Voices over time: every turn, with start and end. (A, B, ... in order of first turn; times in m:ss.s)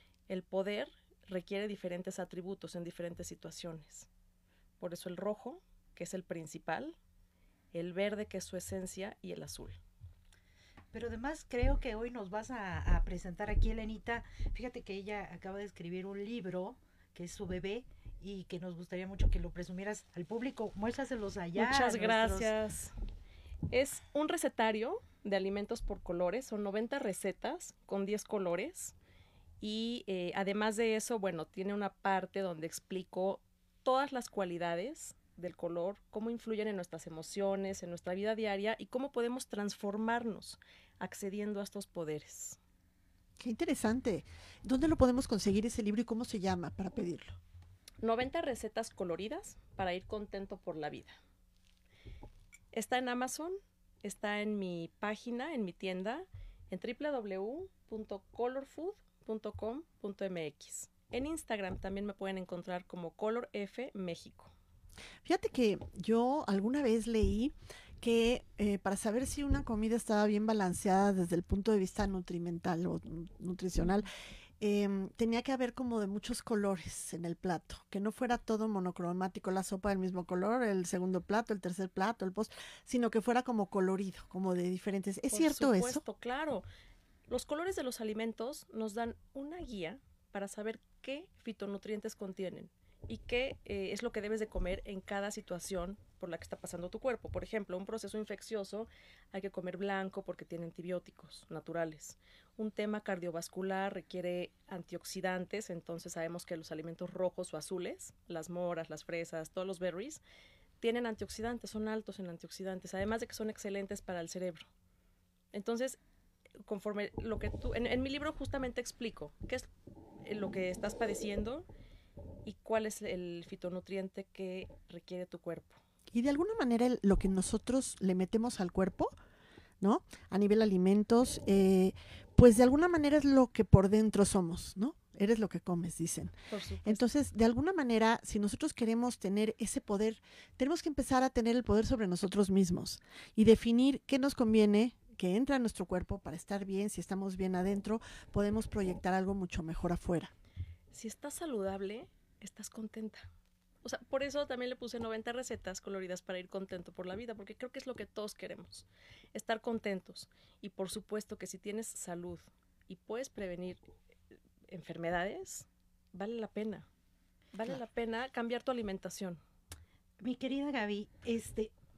0:00.3-0:04.1 A
0:04.8-0:07.0 A
0:07.7-0:09.8 A
0:10.9-0:22.5 B
0:21.6-0:22.9 A
0:23.7-0:28.9 A
0:29.6-0:42.6 A
0:43.4-0:47.4 C
0:48.0-0:51.2 A
0:52.7-1:04.5 A
1:05.2-1:14.1 C
1:14.6-1:26.0 C
1:25.3-1:26.6 A
1:27.3-1:50.2 A
1:50.8-1:54.7 A
1:55.5-1:56.0 A
1:56.6-1:59.7 A
2:00.2-2:01.7 A
2:02.4-2:05.8 A
2:06.1-2:09.1 C
2:09.8-2:30.3 C
2:16.5-2:17.0 A
2:30.9-2:33.3 A
2:33.8-2:43.8 A
2:44.7-2:46.9 A
2:47.5-2:49.4 A
2:50.2-2:51.7 B